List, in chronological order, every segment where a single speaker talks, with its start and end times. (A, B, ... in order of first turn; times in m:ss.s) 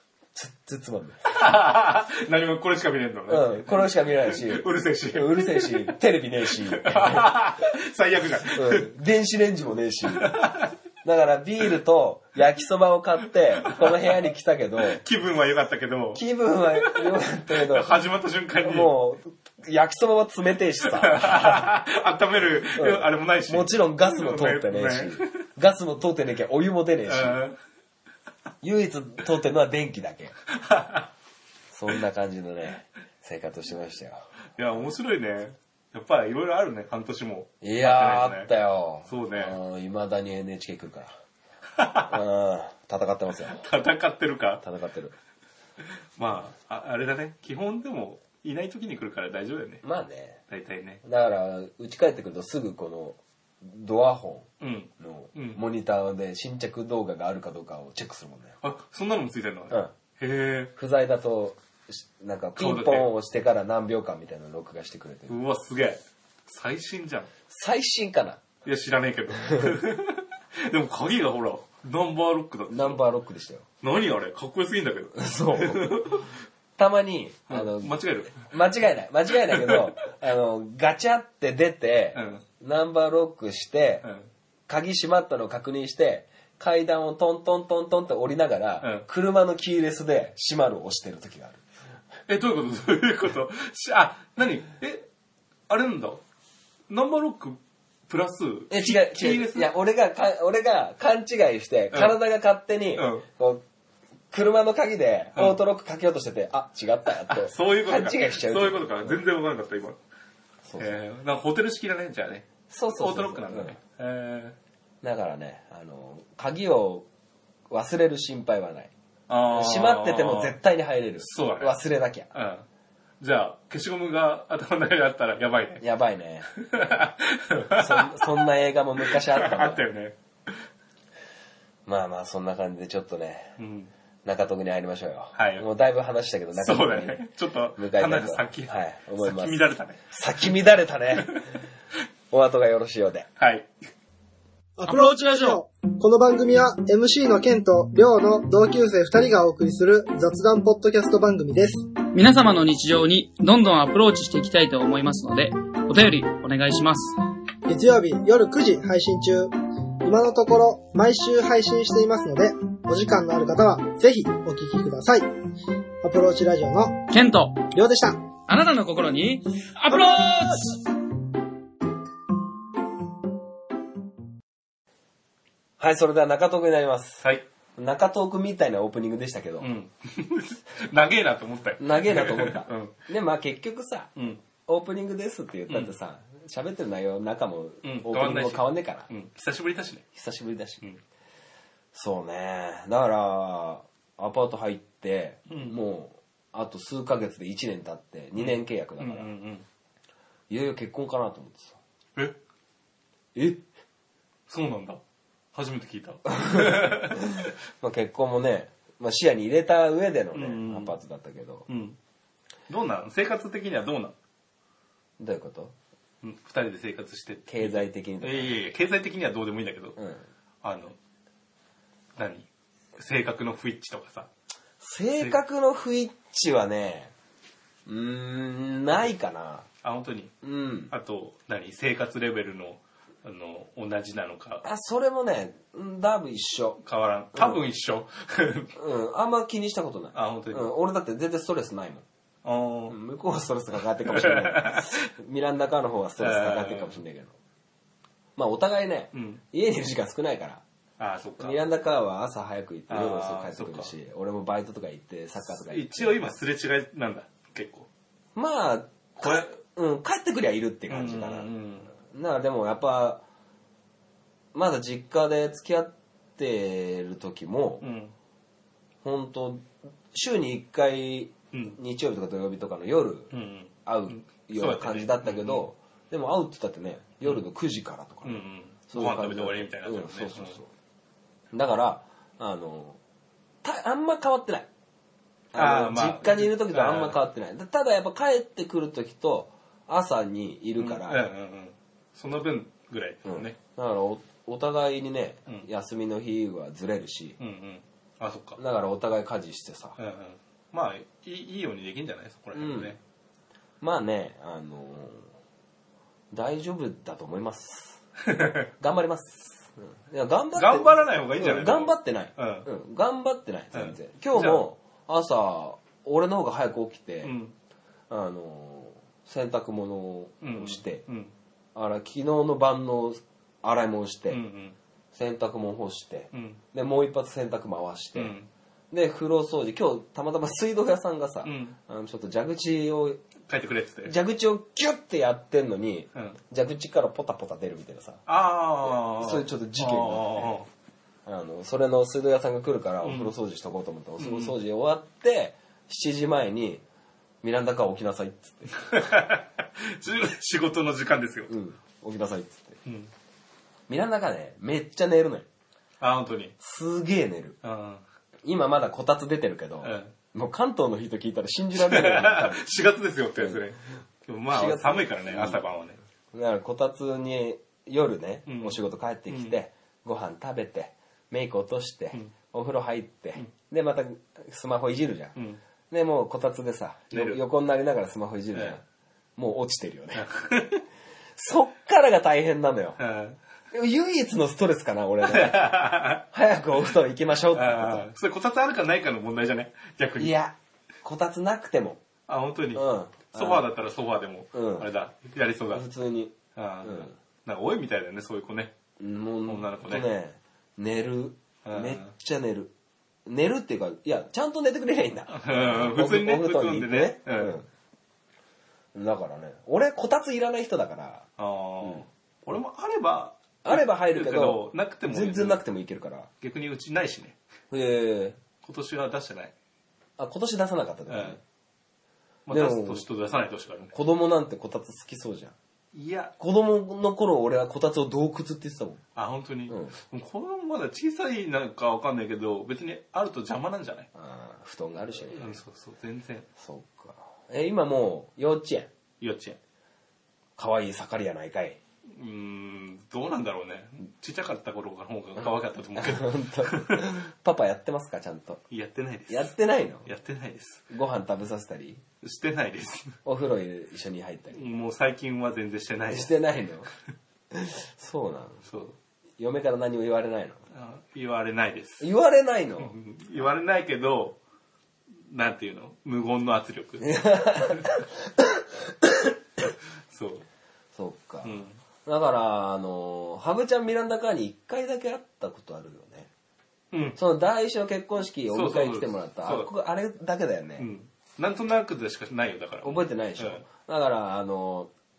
0:00.3-0:01.2 A
0:01.2-0:05.9 B
0:03.3-0:07.3 A
0:06.5-0:08.9 B
0:08.5-0:10.3 A
0:10.1-0:10.7 B
0:11.0-0:15.0 A
0:13.6-0:14.1 B
0:14.8-0:16.2 B
0:16.1-0:17.9 A
0:16.8-0:18.9 B
0:18.6-0:21.6 A
0:20.8-0:25.4 B
0:22.7-0:27.4 A
0:27.0-0:27.6 B
0:28.6-0:30.3 A
0:30.5-0:31.1 B
0:31.7-0:34.2 A
0:34.6-0:38.5 B
0:37.6-0:41.1 A
0:39.0-0:39.6 B
0:41.7-0:42.2 B
0:42.1-0:43.6 A
0:43.5-0:44.6 B
0:44.6-0:45.1 A
0:46.2-0:49.8 B
0:49.8-0:50.4 A
0:50.5-0:51.0 B
0:51.0-0:54.5 A
0:54.6-0:55.6 B
0:55.0-0:58.6 A
0:58.6-1:00.7 B
1:00.7-1:05.4 A
1:02.6-1:03.1 B
1:05.3-1:07.3 B
1:07.5-1:08.4 A
1:08.6-1:13.0 B
1:09.5-1:09.7 A
1:12.7-1:13.6 A
1:13.8-1:16.3 B
1:15.1-1:16.0 A
1:16.8-1:24.0 A
1:17.5-1:18.3 B
1:19.5-1:19.9 B
1:22.1-1:22.4 B
1:24.0-1:24.3 B
1:24.7-1:31.6 A
1:32.3-1:35.1 B
1:35.7-1:36.2 B
1:36.9-1:39.7 B
1:38.7-1:43.6 A
1:41.9-1:42.2 B
1:43.0-1:43.2 B
1:44.3-1:49.2 A
1:47.3-1:50.0 B
1:50.6-1:50.9 A
1:50.8-1:54.6 B
1:52.7-1:53.8 A
1:55.0-1:57.1 A
1:57.7-1:58.9 A
1:59.3-2:00.6 B
1:59.5-2:02.3 A
2:01.2-2:01.7 B
2:02.3-2:02.6 B
2:03.2-2:05.8 B
2:05.8-2:06.5 A
2:06.5-2:08.4 B
2:07.7-2:09.8 A
2:09.0-2:10.7 B
2:11.8-2:13.6 A
2:13.6-2:13.9 B
2:14.2-2:17.2 A
2:15.3-2:15.6 B
2:16.6-2:20.0 B
2:17.8-2:21.4 A
2:22.3-2:23.3 A
2:23.4-2:23.7 B
2:24.8-2:31.8 C
2:24.9-2:25.6 D
2:32.1-2:37.1 D
2:37.6-2:39.5 C
2:40.0-2:45.3 C
2:46.0-2:47.0 C
2:47.1-2:47.7 D
2:47.7-2:48.2 C
2:48.5-2:50.8 D
2:55.8-2:57.2 A
2:57.2-2:57.4 B
2:57.8-2:59.7 A
2:59.6-3:02.9 B
3:01.8-3:04.1 A
3:04.2-3:04.4 B
3:04.6-3:09.1 A
3:05.7-3:05.9 B
3:07.8-3:10.0 B
3:10.1-3:10.8 A
3:11.9-3:19.3 A
3:15.5-3:15.8 B
3:18.4-3:19.6 B
3:20.5-3:21.8 A
3:23.3-3:23.6 A
3:24.5-3:25.0 B
3:25.5-3:27.5 B
3:26.3-3:31.7 A
3:30.3-3:30.9 B
3:31.7-3:32.0 B
3:32.7-3:34.2 B
3:35.2-3:35.7 A
3:36.2-3:40.0 B
3:37.5-3:38.6 A
3:40.0-3:40.2 A
3:40.6-3:41.0 B
3:42.2-3:44.3 B
3:44.8-3:47.1 A
3:47.8-3:49.7 A
3:49.8-3:50.3 B
3:50.4-3:50.9 A
3:50.9-3:54.6 B
3:54.6-3:56.8 A
3:56.8-3:58.7 B
3:57.3-3:57.6 A
3:58.8-4:02.0 A
4:00.1-4:00.7 B
4:02.4-4:03.0 B
4:02.9-4:07.3 A
4:04.0-4:05.0 B
4:06.2-4:07.0 B
4:08.4-4:10.6 A
4:09.1-4:09.4 B
4:11.0-4:11.6 B
4:11.4-4:16.2 A
4:12.9-4:13.9 B
4:15.6-4:17.9 B
4:18.3-4:21.5 A
4:19.2-4:19.5 B
4:20.9-4:21.9 B
4:22.0-4:23.2 A
4:24.5-4:27.8 A
4:27.8-4:28.1 B
4:29.0-4:33.3 A
4:31.5-4:31.8 B
4:33.3-4:35.6 B
4:33.8-4:40.7 A
4:38.2-4:40.6 B
4:41.5-4:43.0 A
4:43.6-4:44.7 A
4:45.5-4:51.2 A
4:45.5-4:47.2 B
4:50.8-4:53.6 B
4:53.2-4:57.4 A
4:57.4-4:58.6 B
4:58.6-5:00.0 A
5:00.0-5:03.0 B
5:02.5-5:03.0 A
5:03.8-5:05.3 A
5:06.3-5:08.0 A
5:08.3-5:08.6 B
5:08.7-5:17.3 A
5:10.5-5:12.7 B
5:13.7-5:14.6 B
5:17.2-5:17.5 B
5:18.1-5:21.0 A
5:20.4-5:21.3 B
5:21.7-5:24.4 A
5:24.3-5:24.8 B
5:25.1-5:28.3 A
5:26.3-5:26.6 B
5:28.1-5:28.5 B
5:28.9-5:33.2 A
5:31.4-5:31.8 B
5:33.5-5:34.1 B
5:34.0-5:38.2 A
5:38.3-5:40.7 B
5:38.8-5:40.6 A
5:41.2-5:46.8 A
5:43.0-5:43.3 B
5:44.2-5:44.6 B
5:47.4-5:48.8 A
5:48.9-5:51.5 B
5:51.5-5:52.8 A
5:52.8-5:53.1 B
5:53.9-5:55.4 A
5:56.0-5:56.6 B
5:56.6-5:57.6 A
5:57.6-5:58.0 B
5:58.4-6:02.7 A
5:59.8-6:00.1 B
6:01.7-6:06.0 B
6:04.5-6:05.6 A
6:06.3-6:15.3 A
6:08.5-6:09.6 B
6:15.4-6:15.6 B
6:15.9-6:18.8 A
6:17.1-6:17.4 B
6:18.5-6:18.8 B
6:19.4-6:20.3 A
6:20.1-6:20.8 B
6:21.4-6:23.0 A
6:23.0-6:23.4 B
6:23.7-6:28.1 A
6:25.2-6:26.2 B
6:27.5-6:30.3 B
6:30.2-6:32.0 A
6:32.3-6:35.8 B
6:32.7-6:33.6 A
6:34.5-6:34.9 A
6:35.7-6:37.1 A
6:36.5-6:38.7 B
6:39.0-6:42.7 A
6:39.4-6:40.1 B
6:41.6-6:42.1 B
6:43.2-6:47.7 A
6:45.3-6:47.6 B
6:48.9-6:51.3 A
6:51.4-6:55.6 B
6:53.6-6:56.3 A
6:56.4-6:57.4 B
6:57.7-6:58.4 A
6:58.6-6:59.5 B
7:00.2-7:01.4 A
7:01.1-7:01.4 B
7:02.4-7:03.9 B
7:02.5-7:03.0 A
7:03.9-7:05.5 A
7:05.9-7:06.3 B
7:06.4-7:09.0 A
7:09.1-7:14.1 B
7:09.7-7:09.9 A
7:14.1-7:15.6 A
7:15.3-7:16.5 B
7:16.6-7:18.9 A
7:19.2-7:19.6 B
7:20.6-7:21.8 A
7:22.1-7:27.1 B
7:25.9-7:28.6 A
7:28.7-7:29.5 B
7:29.3-7:30.1 A
7:30.0-7:30.8 B
7:30.9-7:32.0 A
7:32.2-7:33.2 B
7:33.2-7:34.6 A
7:34.5-7:36.3 B
7:36.1-7:36.9 A
7:37.5-7:38.6 A
7:38.6-7:39.0 B
7:39.4-7:40.6 A
7:40.7-7:42.1 B
7:42.0-7:42.9 A
7:42.8-7:44.4 B
7:45.1-7:47.8 B
7:47.0-7:49.3 A
7:50.1-7:50.4 B
7:50.9-7:56.3 A
7:51.4-7:51.8 B
7:56.9-7:57.2 B
7:57.2-8:00.9 A
7:58.5-7:59.7 B
8:00.8-8:03.6 B
8:02.8-8:04.9 A